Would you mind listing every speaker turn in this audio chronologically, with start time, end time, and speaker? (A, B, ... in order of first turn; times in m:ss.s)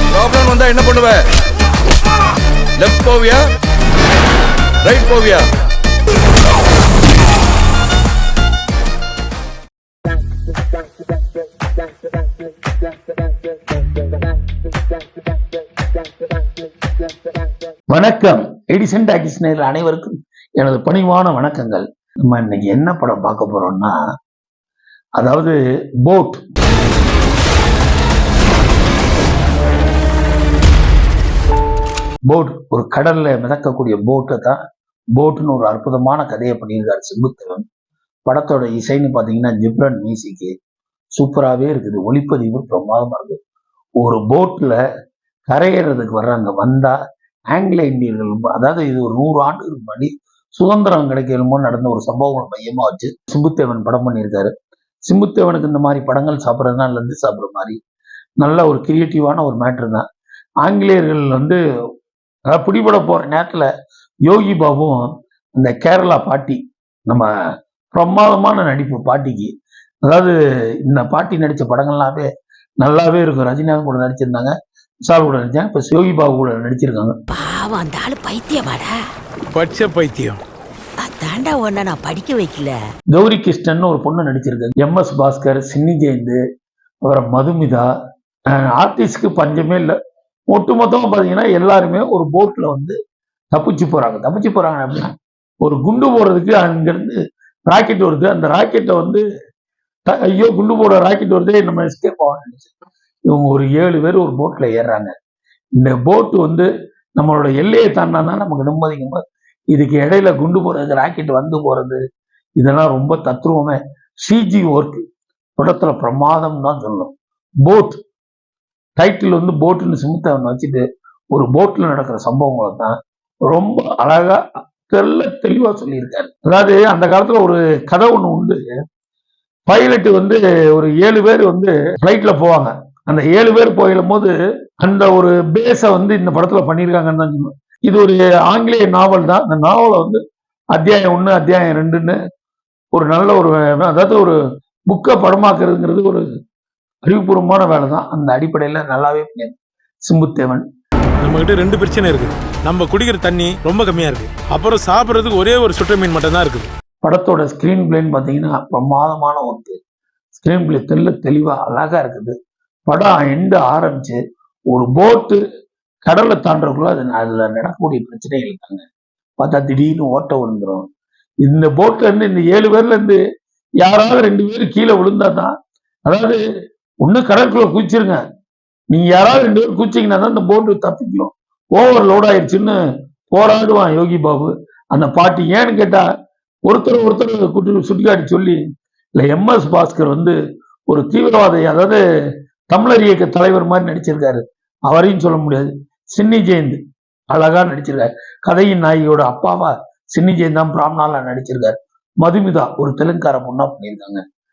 0:00.2-0:01.2 A
0:02.8-0:03.4 A
0:04.8-0:05.4 A
0:17.9-0:24.0 B
0:25.2-0:26.4 B
0:32.3-0:34.6 B
0:35.2-0:37.6 B
0:38.3-0:40.5 B
0:41.2-0:43.4 B
0:44.0-0:44.8 B
0:45.5-0:47.0 B
0:47.5-0:54.5 B
0:55.1-0:57.8 B
0:58.4-1:00.0 B
1:00.6-1:01.6 B
1:02.5-1:03.7 B
1:04.3-1:07.3 B
1:07.9-1:09.5 B
1:10.0-1:10.3 B
1:10.9-1:12.3 B
1:12.8-1:14.5 B
1:15.0-1:17.1 B
1:17.3-1:18.9 C
1:19.5-1:20.4 D
1:21.0-1:22.8 C
1:23.1-1:26.4 B
1:27.0-1:27.9 B
1:28.5-1:30.0 B
1:30.5-1:33.0 B
1:33.5-1:39.2 B
1:40.1-1:42.7 B
1:43.3-1:45.1 B
1:45.8-1:52.0 B
1:52.6-1:55.0 B
1:55.6-1:58.0 B
1:59.0-2:03.0 B
2:03.5-2:08.7 B
2:09.7-2:20.2 B
2:20.7-2:22.2 B
2:22.9-2:24.4 B
2:24.9-2:26.3 B
2:27.0-2:29.5 B
2:30.1-2:30.7 B
2:31.2-2:36.7 D
2:37.0-2:39.8 B
2:40.4-2:42.4 B
2:42.9-2:44.2 B
2:44.7-2:45.4 B
2:46.0-2:48.8 B
2:49.4-2:50.8 B
2:51.4-2:53.2 B
2:53.8-2:55.5 B
2:56.1-2:56.4 B
2:57.0-2:58.2 B
2:58.9-3:02.8 B
3:03.3-3:06.0 B
3:06.6-3:08.6 B
3:09.2-3:10.4 B
3:10.9-3:12.0 B
3:12.7-3:16.8 B
3:17.3-3:24.2 B